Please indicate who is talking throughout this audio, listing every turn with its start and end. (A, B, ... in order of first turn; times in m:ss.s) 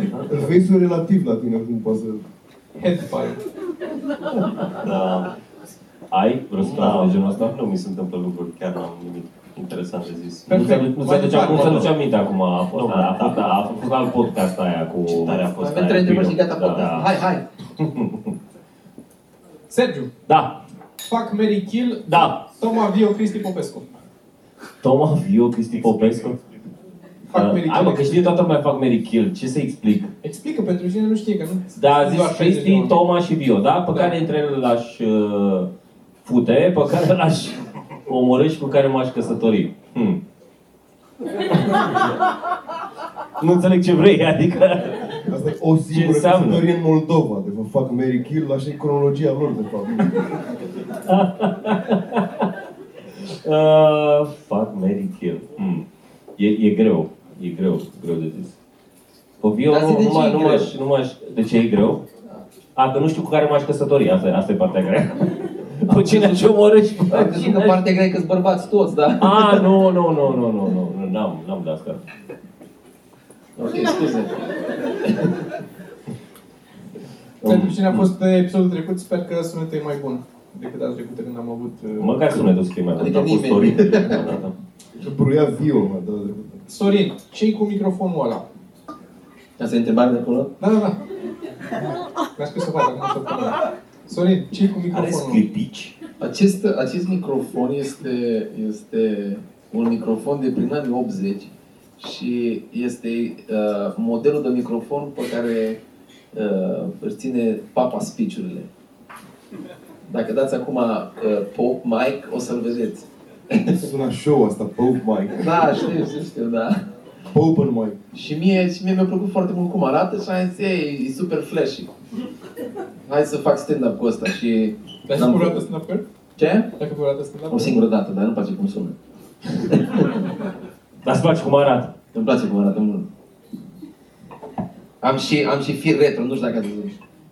0:00.3-0:02.2 A
0:02.8-0:03.4 B
0:04.6-0:05.3 C
0:06.1-0:07.5 D
0:06.6-0:10.6 C
0:10.5-0:11.9 B
0:10.5-0:17.1 D
0:11.3-0:11.9 C
0:12.7-0:13.4 C
0:15.0-0:15.8 C
0:15.6-0:17.4 E
0:17.8-0:18.3 D
0:19.7-0:20.1 B
0:20.3-0:20.6 D
0:21.1-0:23.8 B
0:22.1-0:22.4 D
0:24.8-0:26.4 D
0:27.3-0:28.4 B
0:27.3-0:30.1 D
0:30.2-0:33.0 B
0:31.8-0:35.7 D
0:33.9-0:34.2 B
0:36.2-0:40.2 D
0:43.4-0:45.3 D
0:45.3-0:50.3 A
0:45.9-0:46.6 D
0:51.0-0:52.5 D
0:53.2-0:55.8 D
0:56.4-0:58.5 D
0:59.4-1:02.0 D
0:59.7-1:00.7 E
1:02.7-1:07.9 D
1:05.8-1:06.5 E
1:07.1-1:09.7 E
1:09.2-1:12.0 D
1:13.6-1:14.4 E
1:15.0-1:15.3 E
1:17.4-1:22.4 B
1:17.4-1:18.0 D
1:22.0-1:24.4 D
1:23.0-1:24.2 E
1:24.2-1:24.5 C
1:25.0-1:26.6 A
1:26.7-1:28.4 B
1:29.6-1:30.5 E
1:30.6-1:31.0 B
1:32.4-1:35.4 B
1:34.9-1:35.9 D
1:36.2-1:45.8 E
1:46.3-1:48.7 E
1:50.1-1:53.8 E
1:53.6-1:55.8 A
1:55.4-1:56.8 E
1:57.3-1:58.0 A
1:58.1-2:01.9 E
2:03.0-2:05.6 E
2:05.0-2:06.0 B
2:06.4-2:06.7 E
2:06.8-2:07.8 B
2:07.5-2:09.0 E
2:09.5-2:10.2 E
2:11.0-2:11.9 D
2:12.1-2:13.1 E
2:15.0-2:17.0 E